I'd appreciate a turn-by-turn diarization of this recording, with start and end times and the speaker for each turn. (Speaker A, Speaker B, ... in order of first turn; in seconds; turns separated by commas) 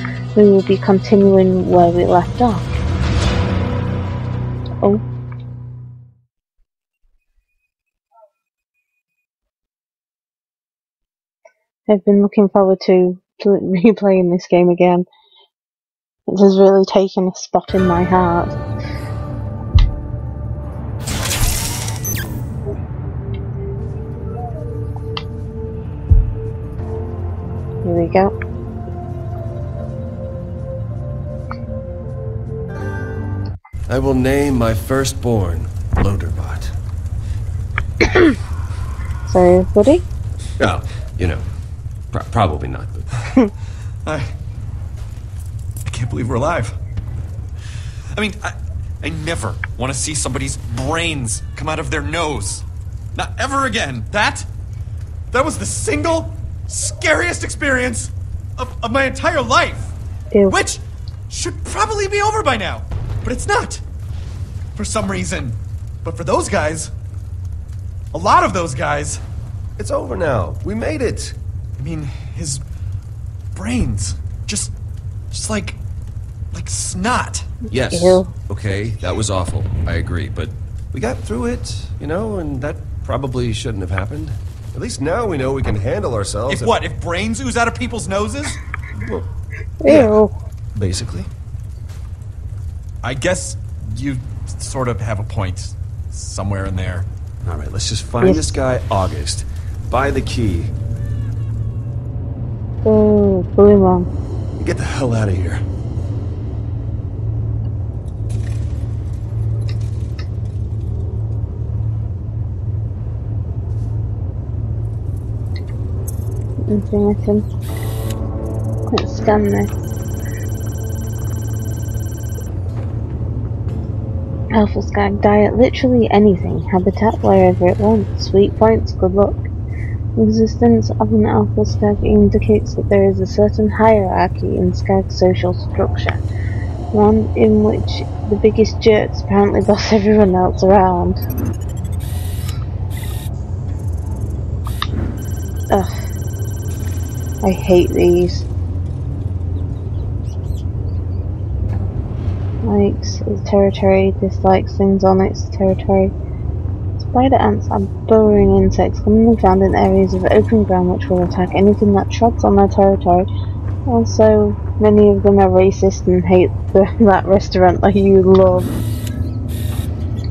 Speaker A: 0.4-2.8, Speaker A: 11.9-15.1, Speaker A: 16.3-18.5, Speaker A: 27.8-28.3, Speaker B: 33.9-36.7, Speaker A: 39.3-40.0, Speaker B: 40.6-41.4, Speaker B: 42.1-43.1, Speaker C: 44.1-44.3, Speaker C: 45.9-46.8, Speaker C: 48.1-52.6, Speaker C: 53.2-54.5, Speaker C: 55.3-59.9, Speaker A: 60.3-60.6, Speaker C: 60.5-63.8, Speaker C: 64.8-66.9, Speaker C: 68.1-69.2, Speaker B: 69.8-71.4, Speaker C: 71.8-72.6, Speaker C: 73.6-74.7, Speaker C: 75.3-75.8, Speaker C: 76.5-77.5, Speaker B: 77.7-86.8, Speaker A: 77.8-78.3, Speaker C: 86.5-88.6, Speaker A: 89.8-90.3, Speaker B: 90.8-91.3, Speaker C: 93.0-97.1, Speaker B: 97.5-100.7, Speaker A: 98.2-98.5, Speaker A: 102.8-104.1, Speaker B: 104.6-105.6, Speaker A: 116.7-117.5, Speaker A: 118.9-119.7, Speaker A: 124.5-129.5, Speaker A: 130.2-136.2, Speaker A: 136.9-141.2, Speaker A: 147.4-148.5, Speaker A: 152.6-156.1, Speaker A: 157.0-163.3, Speaker A: 163.9-168.7